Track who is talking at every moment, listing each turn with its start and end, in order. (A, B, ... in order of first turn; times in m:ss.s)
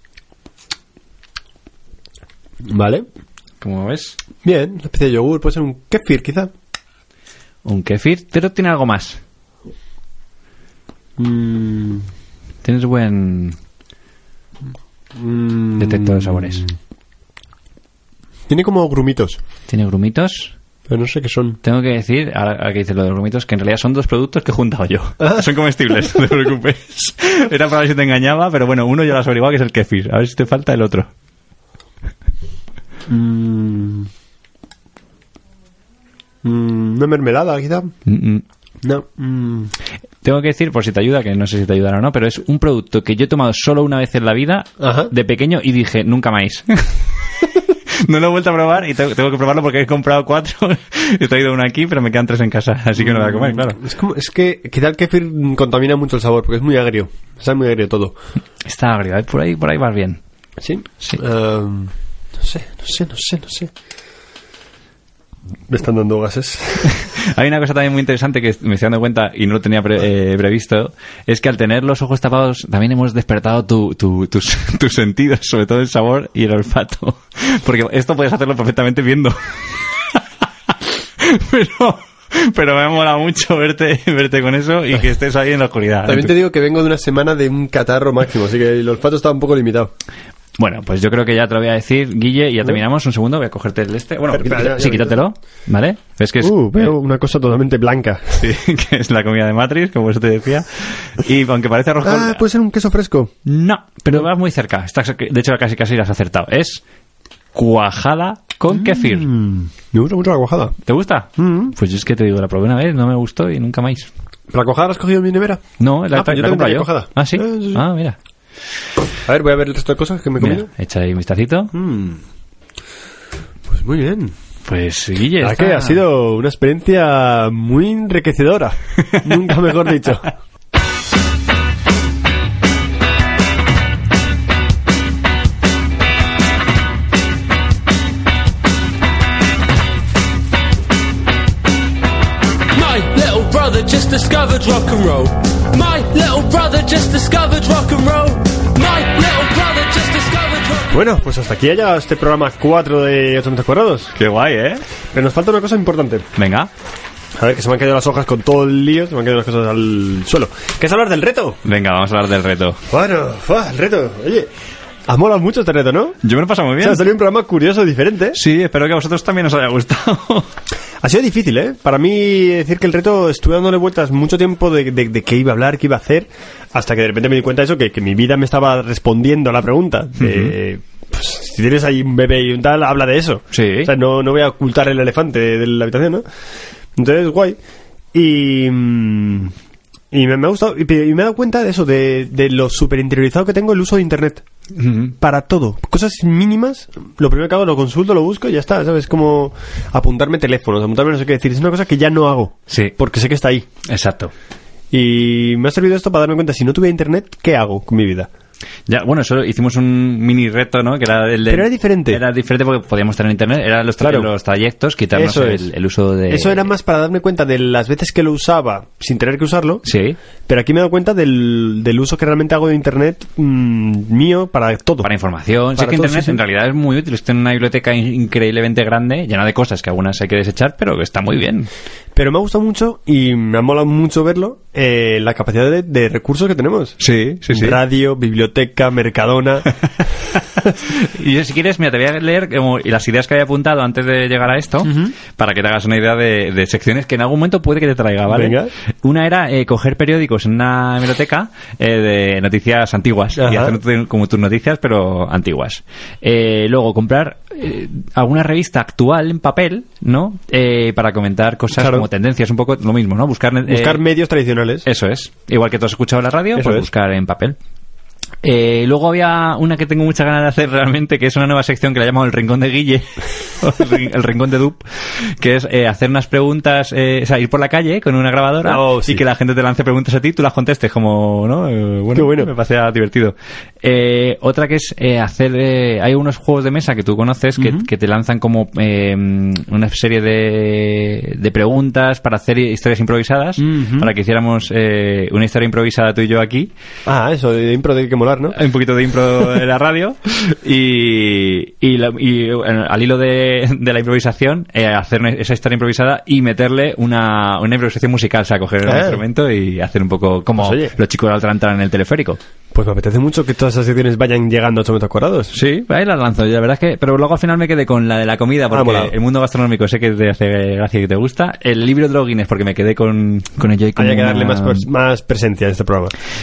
0:02.6-0:03.0 A
0:03.6-0:04.2 B
0:04.4-0:06.5 A
0:07.6-0:09.2 B
0:11.2-0:12.1 A
0:12.6-0:13.6 B
0:15.1-0:16.7 A
0:15.8-0:16.6 B
0:18.5-0:19.4 A
0:19.7-0:20.5 B
0:20.9-0:21.6 A
0:21.6-0:31.1 B
0:25.2-0:25.5 A
0:33.1-0:34.1 A
0:36.4-0:37.9 A
0:38.0-0:38.4 B
0:38.8-0:39.7 A
0:40.2-0:53.8 B
0:44.8-0:45.1 A
0:53.0-0:58.1 A
0:58.6-1:00.2 B
1:00.6-1:03.7 A
1:05.7-1:06.9 A
1:06.8-1:20.2 B
1:20.9-1:26.4 B
1:26.0-1:29.9 A
1:30.6-1:36.9 B
1:34.3-1:35.2 A
1:36.4-1:38.5 A
1:38.4-1:42.4 B
1:42.0-1:43.3 A
1:43.4-1:46.8 B
1:47.5-1:49.3 B
1:48.7-1:50.7 A
1:50.8-1:54.1 B
1:51.4-1:51.7 A
1:54.5-1:57.8 A
1:55.8-1:58.2 B
1:59.2-2:00.7 A
2:00.4-2:01.7 B
2:01.7-2:02.2 A
2:03.7-2:04.3 A
2:04.6-2:06.0 B
2:05.4-2:10.3 A
2:22.7-2:30.9 C
2:30.9-2:34.1 A
2:34.1-2:34.8 B
2:35.1-2:36.3 A
2:36.4-2:36.7 B
2:37.4-2:41.6 A
2:41.6-2:42.8 B
2:42.9-2:44.5 A
2:45.1-2:46.2 A
2:46.2-2:47.0 B
2:46.8-2:48.4 A
2:48.3-2:50.5 B
2:51.0-3:06.2 A
3:00.2-3:00.5 B
3:03.5-3:03.9 B
3:07.0-3:07.6 A
3:08.1-3:09.5 A
3:10.1-3:14.4 A
3:14.7-3:15.1 B
3:15.2-3:23.7 A
3:22.7-3:22.9 B
3:23.9-3:24.3 B
3:24.9-3:28.3 A
3:28.9-3:36.7 B
3:31.5-3:32.2 A
3:34.0-3:34.3 A
3:35.1-3:35.7 A
3:36.3-3:39.8 A
3:39.8-3:40.2 B
3:40.5-3:45.1 A
3:45.0-3:51.7 B
3:45.8-3:46.4 A
3:52.1-3:59.7 A
3:57.0-3:57.8 B
4:00.3-4:24.0 B
4:04.8-4:05.1 A
4:08.3-4:08.7 A
4:13.4-4:13.8 A
4:21.7-4:22.1 A
4:23.7-4:24.8 A
4:24.8-4:27.6 B
4:26.6-4:26.9 A
4:28.4-4:56.7 B
4:38.6-4:39.2 A
4:42.1-4:42.5 A
4:47.6-4:47.9 A
4:53.6-4:54.1 A
4:57.0-4:58.6 A
4:58.5-5:12.4 B
5:08.8-5:09.2 A
5:10.6-5:10.9 A
5:12.7-5:15.5 A
5:15.5-5:24.9 B
5:18.7-5:19.1 A
5:24.0-5:26.1 A